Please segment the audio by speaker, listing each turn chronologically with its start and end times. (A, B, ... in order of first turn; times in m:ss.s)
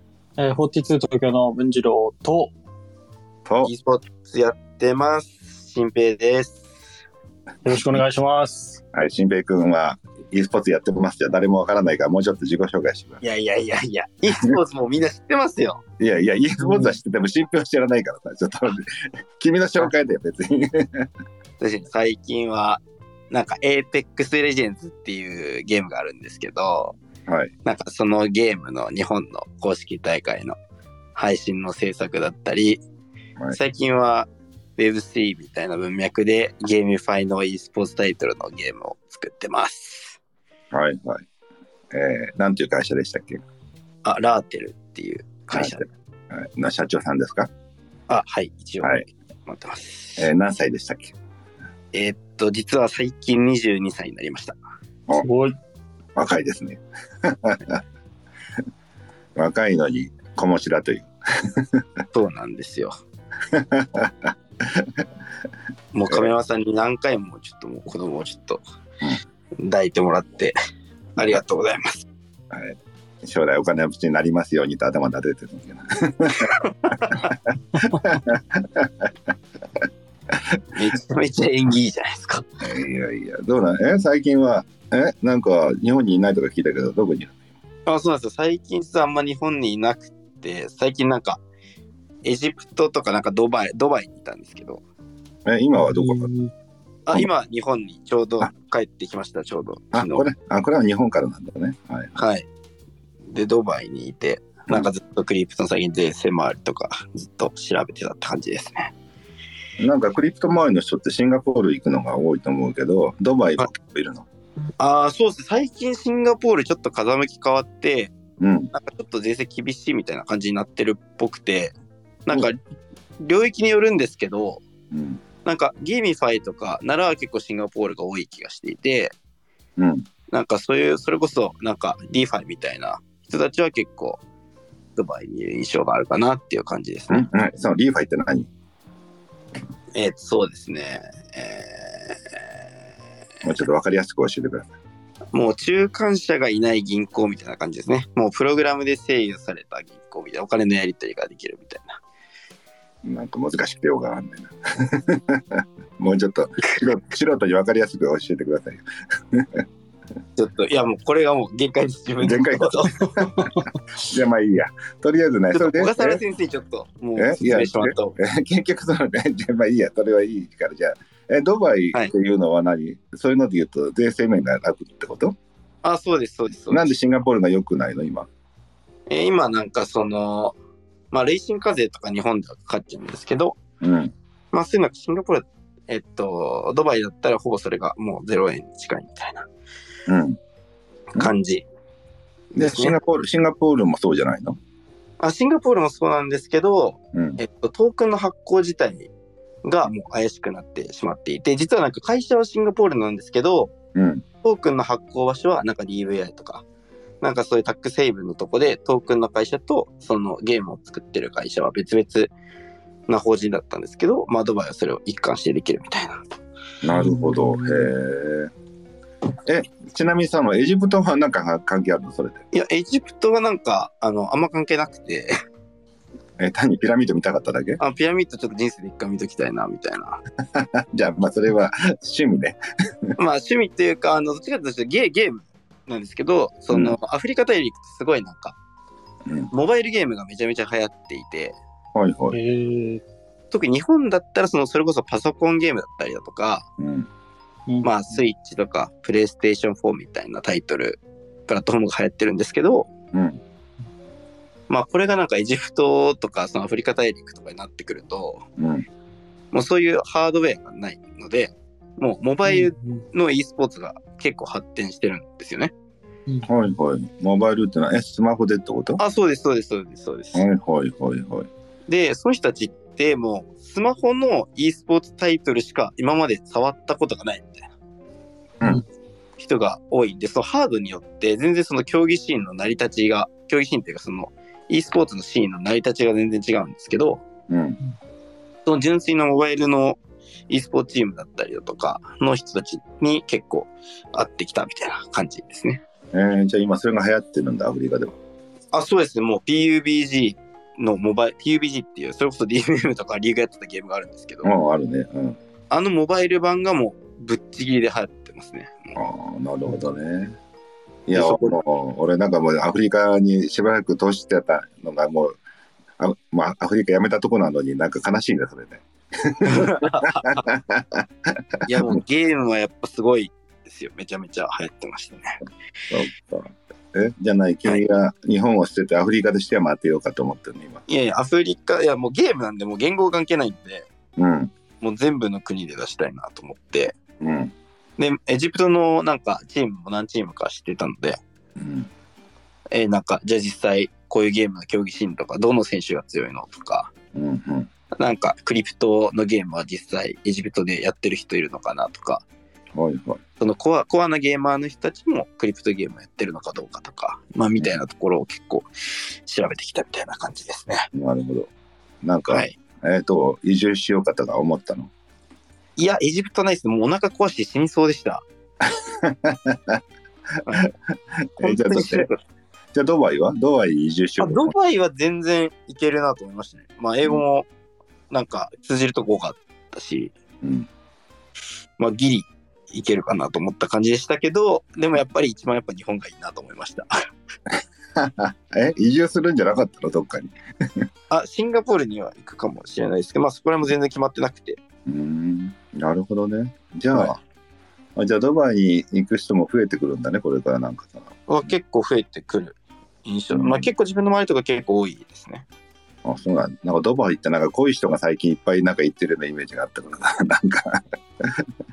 0:00.4-0:02.5 A
0:03.4-0:03.7 B
0:03.6-0:06.7 C
0:07.6-0:08.8 A
0:08.9-0:13.2 B
0:13.2-0:15.8 C
0:16.0-0:18.8 B
0:19.4-0:21.1 B
0:21.6-0:27.0 C
0:27.3-0:27.5 B
0:27.6-0:30.6 C
0:31.1-0:32.8 C
0:33.5-0:40.2 C
0:40.7-0:41.2 B
0:41.9-0:43.4 B
0:44.0-0:45.9 C
0:45.5-0:47.5 B
0:48.1-0:50.3 C
0:50.2-0:51.1 B
0:51.9-0:54.6 C
0:55.1-0:55.6 A
0:56.2-0:57.8 B
0:59.4-1:01.1 B
1:02.1-1:02.9 C
1:03.5-1:04.9 B
1:05.9-1:08.6 C
1:09.6-1:10.6 C
1:11.2-1:12.0 C
1:12.5-1:19.1 B
1:17.0-1:17.3 C
1:20.7-1:22.5 C
1:22.6-1:27.4 B
1:27.8-1:31.4 C
1:32.2-1:34.8 C
1:35.4-1:36.3 B
1:35.9-1:36.5 A
1:37.1-1:40.2 C
1:39.9-1:42.1 B
1:42.2-1:42.5 C
1:43.3-1:48.9 C
1:49.8-1:54.2 B
1:54.8-1:58.1 C
1:58.4-1:58.7 B
1:58.7-2:01.7 C
2:02.2-2:02.6 C
2:03.2-2:04.6 C
2:04.9-2:05.2 B
2:05.4-2:09.1 C
2:09.8-2:10.0 B
2:10.3-2:14.2 C
2:15.0-2:17.3 C
2:17.1-2:18.5 B
2:19.9-2:22.4 C
2:23.4-2:24.7 B
2:25.3-2:32.0 C
2:33.0-2:39.6 B
2:40.4-2:43.7 C
2:42.2-2:43.2 B
2:44.1-2:46.2 B
2:45.5-2:48.2 C
2:47.2-2:55.4 B
2:55.8-2:56.9 C
2:56.7-2:58.3 B
2:59.1-3:00.6 C
3:01.1-3:03.6 C
3:03.8-3:04.1 B
3:04.5-3:09.5 C
3:10.1-3:10.4 B
3:11.1-3:11.6 C
3:12.5-3:13.0 C
3:12.6-3:14.6 B
3:15.2-3:19.1 C
3:17.1-3:17.4 B
3:19.6-3:23.7 C
3:23.9-3:24.2 B
3:24.4-3:26.6 C
3:27.2-3:32.3 C
3:33.1-3:36.2 C
3:36.8-3:38.5 B
3:36.9-3:37.9 A
3:39.4-3:42.4 B
3:42.5-3:45.3 C
3:46.4-3:47.8 B
3:47.8-3:50.2 C
3:50.5-3:52.6 B
3:53.2-3:58.6 C
3:56.7-3:57.0 B
3:59.2-3:59.5 B
3:59.5-4:01.6 C
4:01.9-4:02.4 B
4:02.3-4:03.0 A
4:03.5-4:06.6 C
4:06.8-4:07.1 B
4:07.8-4:12.9 C
4:13.1-4:13.4 B
4:14.7-4:18.4 C
4:18.6-4:18.9 B
4:19.5-4:25.7 C
4:26.4-4:29.0 B
4:29.0-4:30.4 C
4:30.3-4:31.5 B
4:31.9-4:37.7 C
4:39.4-4:47.2 C
4:47.5-4:47.8 B
4:48.6-4:55.8 C
4:56.1-4:58.2 B
4:58.7-5:04.5 C
5:04.4-5:05.4 B
5:05.7-5:09.0 C
5:09.0-5:10.3 B
5:11.1-5:15.4 B
5:11.1-5:11.6 C
5:16.0-5:21.0 B
5:19.5-5:20.4 C
5:21.6-5:22.0 B
5:21.7-5:25.4 C
5:25.9-5:30.8 B
5:30.9-5:33.9 C
5:34.2-5:34.5 B
5:34.8-5:36.9 C
5:37.2-5:37.5 B
5:38.0-5:41.2 C
5:41.6-5:41.9 B
5:42.7-5:46.9 C
5:47.1-5:47.7 B
5:47.9-5:52.2 C
5:52.7-5:53.2 B
5:53.4-6:00.9 C
6:00.9-6:01.5 B
6:02.0-6:04.9 B
6:02.3-6:02.6 C
6:05.8-6:08.2 C
6:08.7-6:09.8 B
6:10.4-6:10.7 C
6:11.4-6:12.1 B
6:11.4-6:12.2 C
6:12.7-6:14.5 B
6:14.2-6:17.5 C
6:18.1-6:20.1 C
6:20.4-6:20.7 B
6:21.8-6:26.9 C
6:28.0-6:30.3 B
6:31.1-6:34.6 C
6:34.8-6:37.2 B
6:36.9-6:37.2 C
6:38.0-6:41.5 B
6:41.3-6:45.4 C
6:43.3-6:43.7 B
6:46.0-6:50.8 B